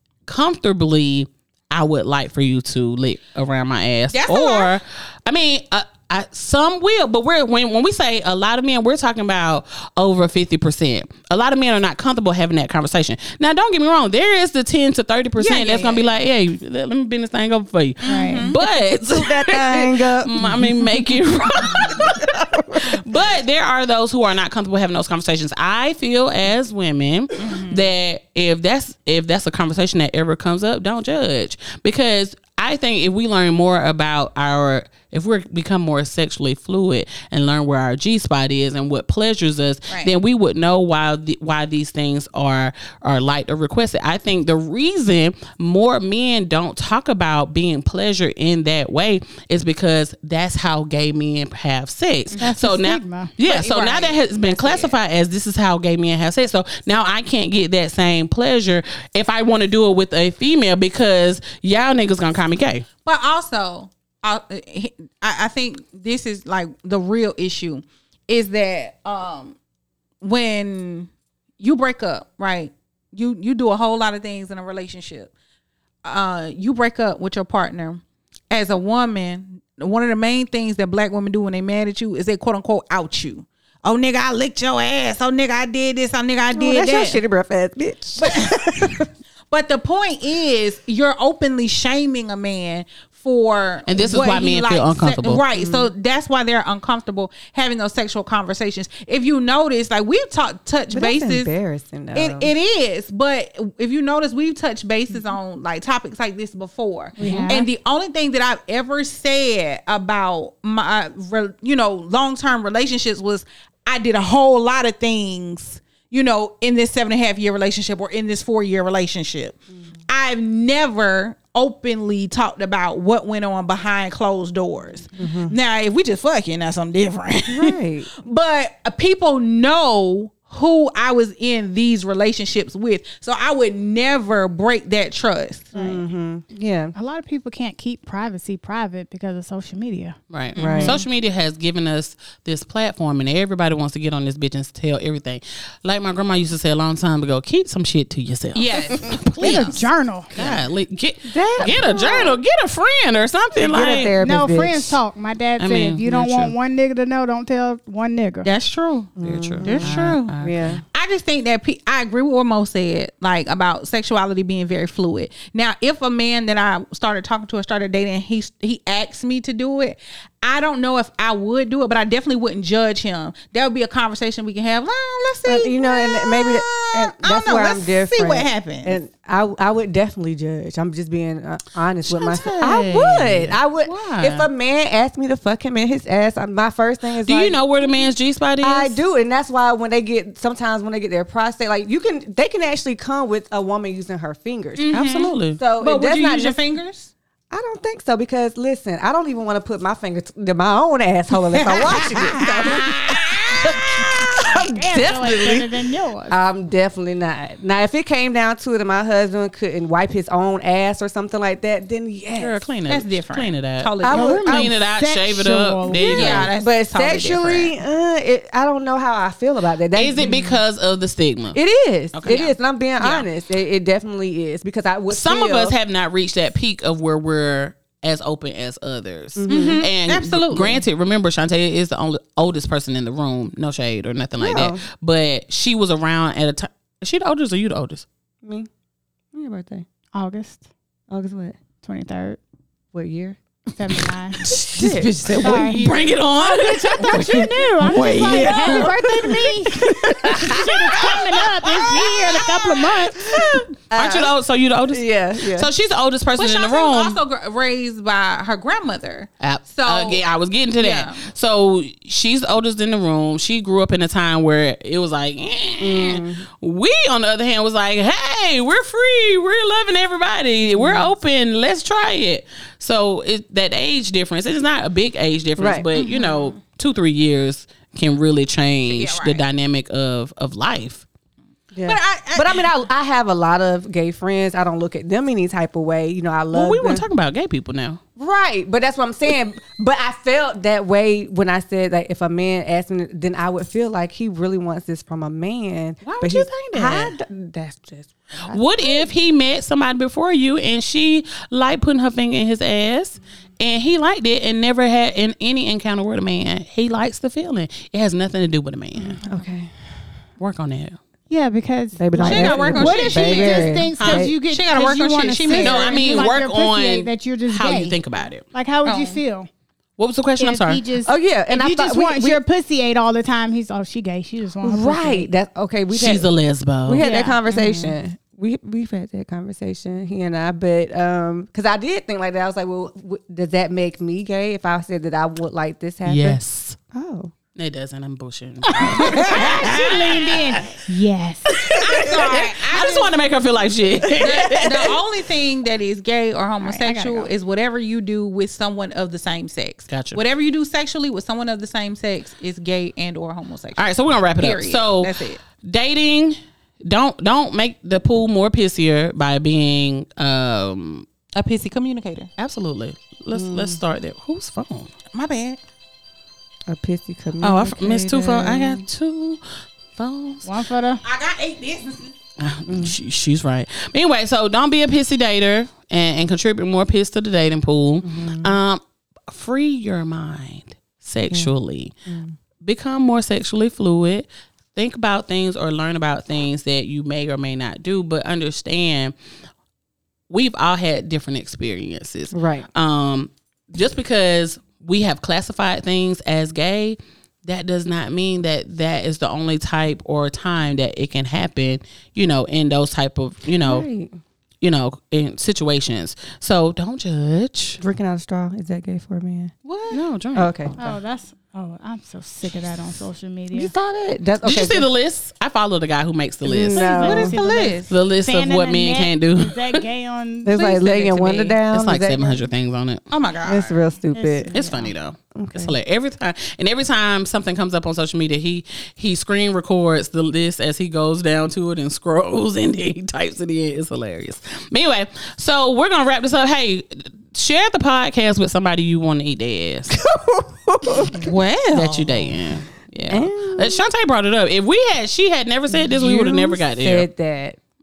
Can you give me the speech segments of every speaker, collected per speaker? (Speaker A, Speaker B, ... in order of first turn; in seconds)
Speaker A: 0.3-62.9, 93.9-95.4, 140.3-154.2, 155.6-156.5, 159.2-160.8, 182.1-184.5, 187.2-189.0, 194.9-195.6, 212.3-213.9, 214.4-216.5, 219.9-221.6, 222.1-222.6, 225.1-238.1, 244.4-252.7, 253.9-257.2, 259.4-281.1, 286.5-288.0, 296.0-297.2, 298.5-309.2, 310.4-311.0, 313.9-314.3, 315.5-318.4, 320.0-320.8, 325.9-327.1, 336.0-336.8, 337.6-340.8, 341.6-345.0, 349.9-350.2, 353.8-361.1, 362.4-364.9, 367.4-369.4, 369.9-370.5, 372.4-381.9, 382.6-389.1, 390.3-403.9, 404.6-407.8, 409.9-411.0, 414.4-416.9, 417.9-419.8, 421.0-423.0, 424.5-440.0, 441.7-447.1
Speaker B: 4.1-4.7, 15.4-16.1, 18.0-18.6, 27.4-27.9, 53.4-54.9, 63.0-69.6, 70.2-71.1, 71.6-75.3, 76.0-87.2, 88.2-88.9, 89.5-101.5, 102.1-119.6, 120.1-135.7, 140.6-140.8, 148.6-149.8, 158.4-160.3, 160.9-179.0, 194.8-197.1, 201.5-203.8, 212.9-214.5, 215.9-217.7, 229.5-230.8, 244.8-246.1, 256.4-260.2, 260.8-261.3, 276.0-276.5, 278.9-279.4, 281.8-282.7, 312.2-316.3, 318.9-319.2, 341.8-343.2, 344.2-355.4, 361.4-362.3, 365.1-365.6, 371.0-372.1, 409.6-410.0, 417.0-417.9, 423.1-423.8, 441.2-442.3
Speaker C: 18.1-18.5, 52.4-53.3, 107.2-107.7, 135.7-136.0, 136.9-141.0, 149.4-150.3, 154.2-158.5, 204.7-206.3, 214.1-216.4, 240.1-240.6, 241.8-242.4, 243.7-244.5, 245.4-253.3, 311.3-318.0, 318.5-319.5, 320.4-325.3, 327.0-327.4, 338.7-341.6, 346.6-347.3, 370.4-371.0, 410.8-413.7, 416.6-421.4, 424.1-424.9
Speaker D: 19.1-21.2, 21.9-23.0, 86.5-89.1, 95.5-95.9, 100.9-102.5, 107.2-107.7, 125.2-125.5, 127.5-128.1, 135.7-136.9, 140.6-141.0, 151.3-152.4, 153.6-155.0, 159.2-160.8, 175.4-187.6, 188.6-194.9, 195.5-196.6, 197.5-205.6, 206.3-212.6, 214.0-214.7, 216.2-220.6, 221.6-225.7, 229.4-229.8, 234.4-234.8, 238.4-238.7, 239.3-239.8, 241.1-241.6, 242.9-243.4, 244.4-246.0, 247.9-250.6, 253.2-254.3, 254.9-255.7, 265.8-266.4, 270.7-271.1, 275.6-275.9, 281.7-287.1, 288.2-299.1, 308.9-309.7, 312.0-314.3, 321.1-322.4, 324.6-326.3, 326.9-336.4, 336.9-337.3, 338.9-339.6, 341.6-342.1, 344.2-344.8, 363.3-363.8, 366.7-368.9, 372.7-372.9, 378.0-378.6, 382.1-382.4, 392.3-392.7, 403.6-404.1, 407.8-409.5, 410.4-410.8, 413.5-414.9, 416.4-417.3, 420.4-422.4, 423.4-424.5, 425.4-425.7, 439.9-441.3, 443.1-443.8, 445.7-447.6